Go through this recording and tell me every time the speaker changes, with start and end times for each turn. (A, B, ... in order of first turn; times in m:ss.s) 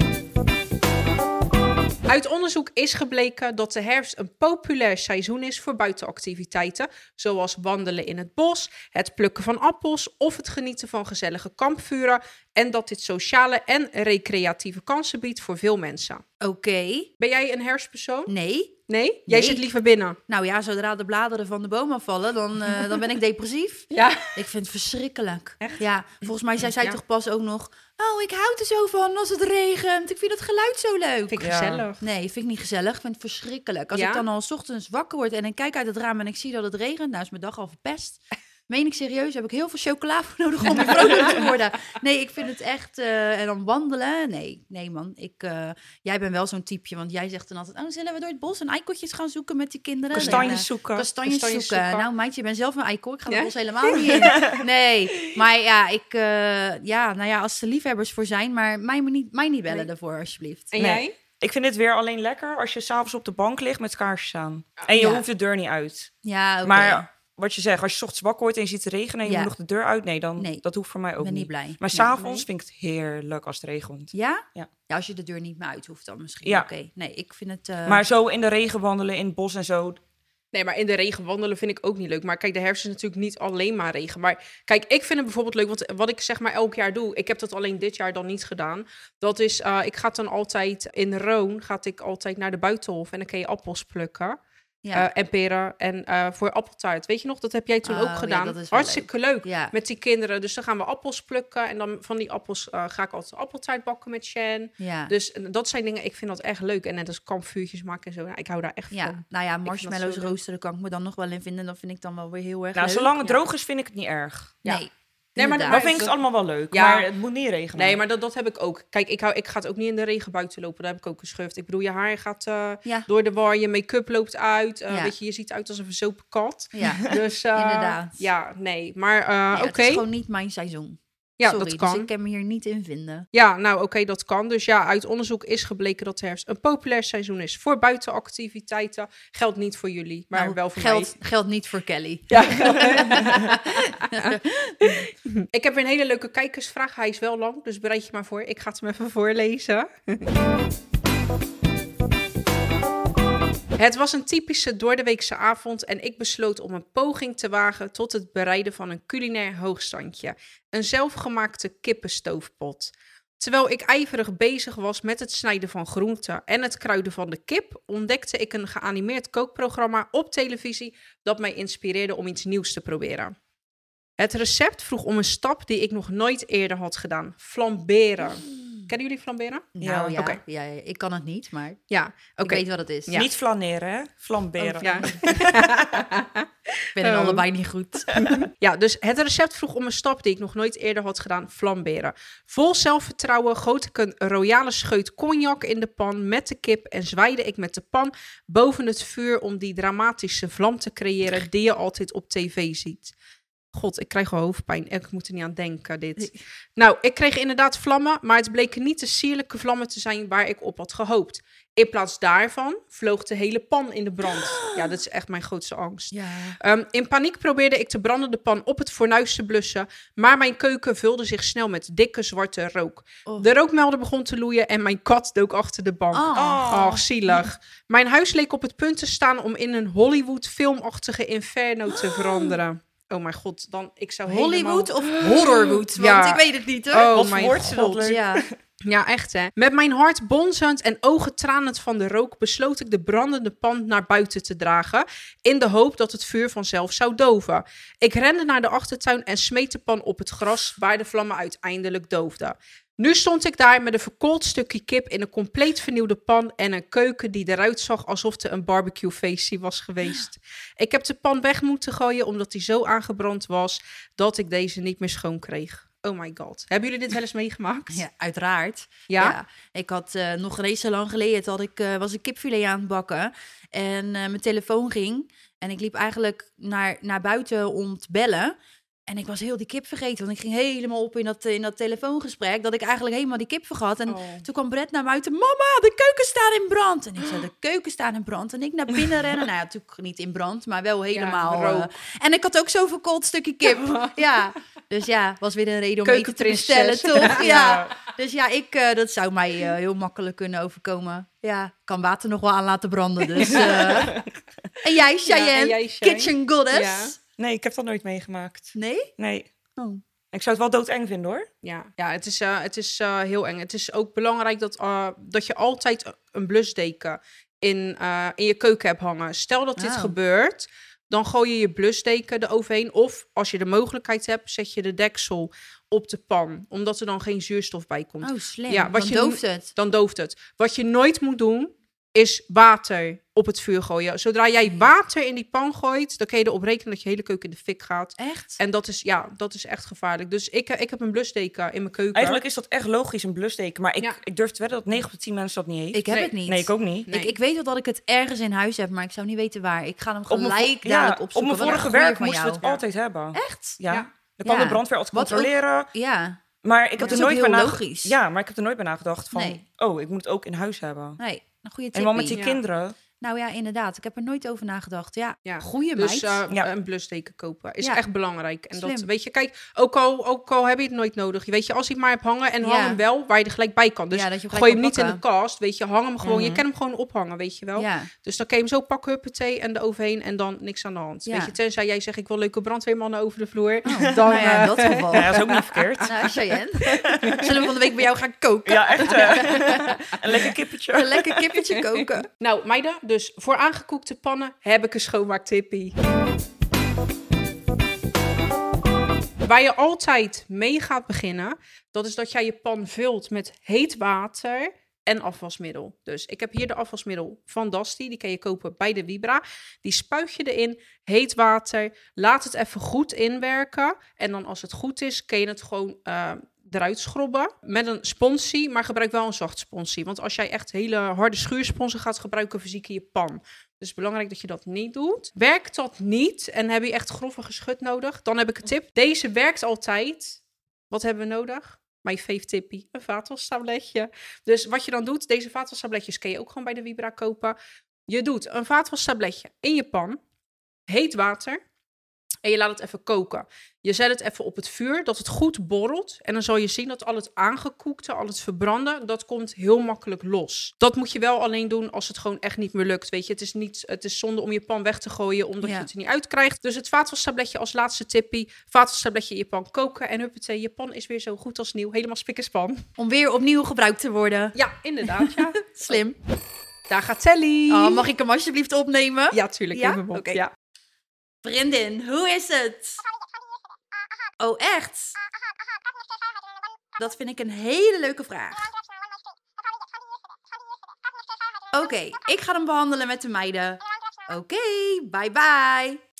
0:02.1-0:16.2 A
0:16.4-0:17.1 B
0:17.2-0:18.3 A
0:18.3-0:19.6 B
0:18.9-0:20.2 A
0:20.3-1:00.7 B
0:23.9-0:24.4 A
0:26.6-0:27.0 A
0:31.3-0:32.0 A
0:31.4-0:31.8 C
0:33.9-0:34.2 A
0:50.1-0:51.1 C
0:50.2-0:50.6 A
0:51.2-0:52.1 A
0:53.3-0:54.4 A
0:54.1-0:54.7 C
1:00.7-1:01.2 A
1:00.8-1:06.1 C
1:05.0-1:05.3 B
1:06.2-1:07.1 B
1:06.6-1:14.7 C
1:09.3-1:09.5 B
1:10.4-1:10.6 B
1:11.2-1:12.2 B
1:12.2-1:12.4 A
1:14.1-1:18.0 B
1:17.9-1:20.0 C
1:20.5-1:34.4 A
1:34.9-1:50.4 A
1:37.8-1:39.7 B
1:44.8-1:45.1 B
1:48.9-1:53.3 B
1:52.8-1:54.6 C
1:54.6-1:55.9 B
1:55.4-1:57.1 A
1:55.7-1:58.0 C
1:57.8-2:10.0 A
2:06.7-2:08.2 B
2:09.5-2:13.3 B
2:11.4-2:12.1 A
2:13.3-2:21.1 A
2:20.3-2:25.0 B
2:22.3-2:30.3 A
2:33.8-2:53.3 A
2:54.2-3:00.4 A
2:58.4-2:58.9 B
2:59.8-3:01.8 B
2:59.8-3:00.2 C
3:01.9-3:03.3 A
3:02.4-3:03.2 B
3:03.2-3:05.7 C
3:04.6-3:07.4 A
3:07.0-3:08.3 B
3:08.1-3:23.1 A
3:23.7-3:58.1 A
3:34.3-3:34.9 B
3:36.1-3:36.6 B
3:46.1-3:47.4 B
3:46.4-3:47.0 C
3:52.0-3:52.5 B
3:54.3-3:57.1 B
3:57.1-3:58.6 C
3:58.0-3:58.4 B
3:58.8-4:28.0 A
4:27.9-4:38.6 B
4:29.1-4:29.4 A
4:39.1-5:04.2 B
4:44.1-4:44.4 A
4:51.1-4:51.9 A
4:53.7-4:54.2 A
4:56.0-4:58.0 A
4:57.4-4:57.8 C
5:03.4-5:04.2 A
5:04.8-5:07.2 B
5:05.2-5:07.1 A
5:07.4-5:09.5 C
5:08.8-5:09.1 B
5:09.8-5:10.0 B
5:10.3-5:11.5 C
5:11.6-5:42.4 A
5:19.8-5:20.2 B
5:28.2-5:29.7 B
5:38.2-5:38.6 B
5:42.1-5:47.1 C
5:45.9-5:52.6 B
5:47.1-5:47.4 A
5:50.3-5:55.9 C
5:51.6-5:51.9 A
5:53.3-5:53.8 B
5:54.4-5:56.4 B
5:56.6-6:01.2 C
5:57.0-5:57.3 A
5:57.0-5:58.2 B
5:59.3-5:59.6 B
6:01.2-6:02.4 B
6:01.9-6:03.0 C
6:02.3-6:02.6 A
6:03.2-6:06.4 B
6:05.5-6:26.1 A
6:08.7-6:09.1 B
6:12.6-6:13.0 B
6:14.1-6:15.2 B
6:16.2-6:16.6 C
6:17.8-6:18.1 B
6:21.3-6:21.6 B
6:23.8-6:25.4 B
6:25.1-6:27.6 C
6:26.0-6:32.3 B
6:27.1-6:27.6 A
6:28.7-6:31.6 C
6:29.1-6:29.8 A
6:32.4-6:36.0 A
6:39.4-7:17.6 A
7:18.1-7:20.2 A
7:20.9-7:21.6 A
7:22.4-7:42.8 A
7:35.6-7:35.9 B
7:43.0-7:46.2 B
7:44.6-7:46.0 A
7:46.9-7:48.1 A
7:47.7-7:50.4 B
7:49.3-7:50.5 A
7:51.4-7:53.0 B
7:54.4-7:55.2 B
7:57.0-7:58.7 B
8:01.7-8:06.0 B